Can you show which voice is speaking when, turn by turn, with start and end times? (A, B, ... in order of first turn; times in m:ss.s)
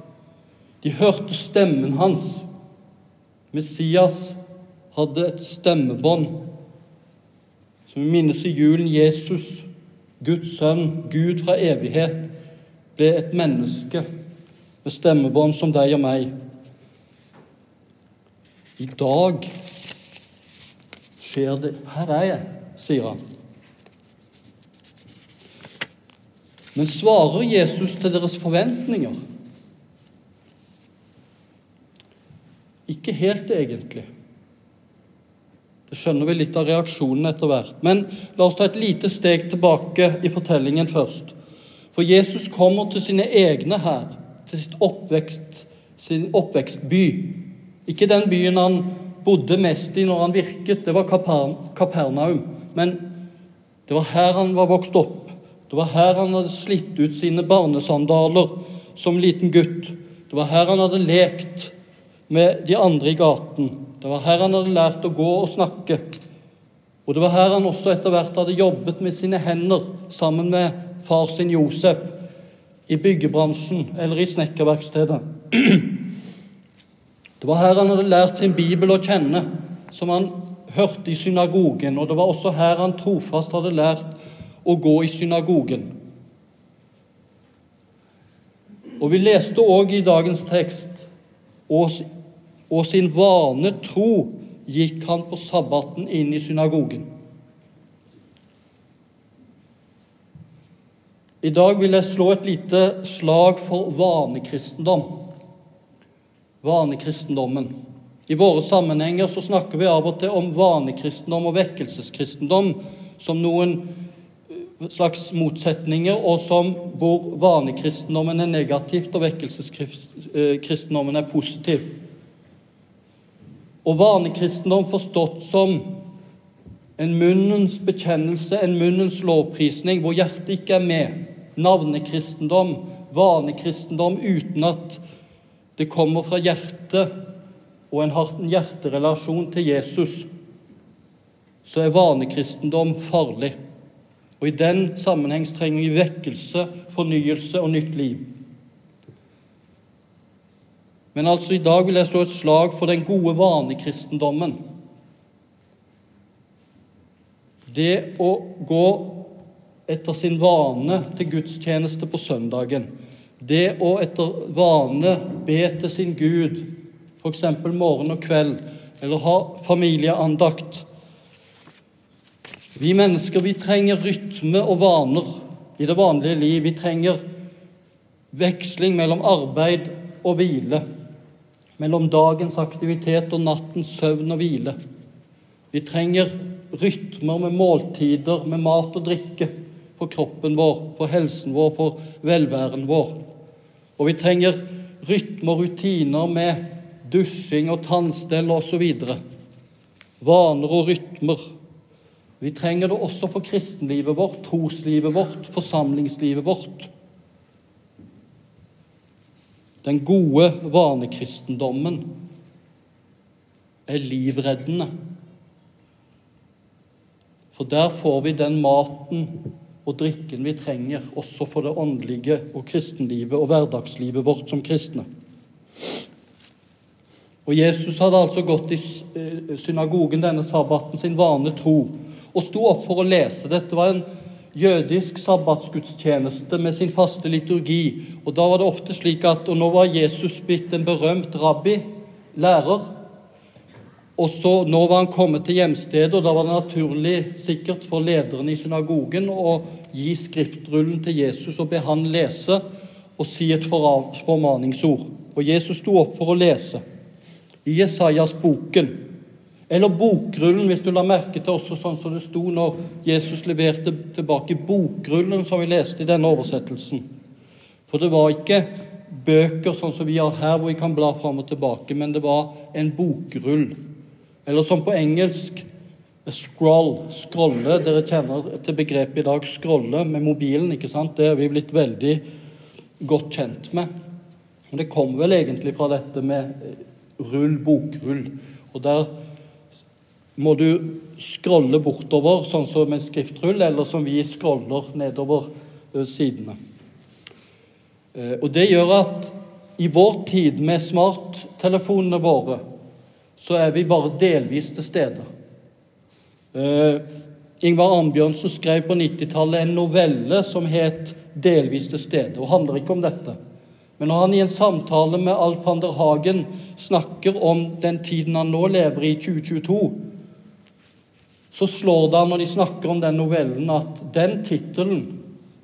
0:00.8-0:02.4 A
0:03.5-0:04.4 A
0:04.9-0:06.4 A
0:07.9-0:09.7 A
0:10.2-0:12.3 A
0:13.0-0:14.0 A
0:14.8-0:16.3 A
0:18.8-0:19.5 A
0:21.2-0:23.2 A
0:26.8-0:29.2 A
0:32.9-0:34.1 A
0:35.9-0:41.3 A
0:41.9-0:53.1 A
0:53.9-1:01.7 A
1:02.3-1:06.0 A
1:07.1-1:12.2 A
1:12.9-1:16.0 A
1:17.4-1:25.9 A
1:29.0-1:31.1 A
1:31.7-1:32.0 A
1:32.7-1:37.1 A
1:41.4-1:45.2 A
1:46.6-1:47.7 A
1:48.3-1:53.9 A
1:54.8-2:01.9 A
2:03.8-2:05.9 A
2:07.0-2:15.0 A
2:15.8-2:17.1 A
2:17.9-2:20.3 A
2:21.6-2:23.6 A
2:24.4-2:28.2 A
2:31.1-2:34.6 A
2:37.7-2:39.3 A
2:39.9-2:46.7 A
2:47.2-2:50.9 A
2:52.8-2:57.2 A
2:58.3-3:00.8 A
3:01.8-3:04.8 A
3:05.7-3:13.2 A
3:14.0-3:19.2 A
3:20.2-3:21.4 A
3:22.4-3:26.9 A
3:29.8-3:32.1 A
3:33.9-3:34.9 A
3:37.5-3:39.3 A
3:39.8-3:45.1 A
3:47.5-4:02.9 A
4:04.2-4:12.6 A
4:13.2-4:16.8 A
4:17.6-4:19.0 A
4:19.7-4:27.0 A
4:27.9-4:33.7 A
4:34.5-4:35.6 A
4:36.2-4:42.2 A
4:43.0-4:43.9 A
4:44.7-4:49.1 A
4:50.4-4:56.6 A
4:58.2-5:02.6 A
5:03.4-5:05.3 A
5:06.5-5:07.0 A
5:07.6-5:13.4 A
5:14.0-5:20.0 A
5:21.5-5:25.1 A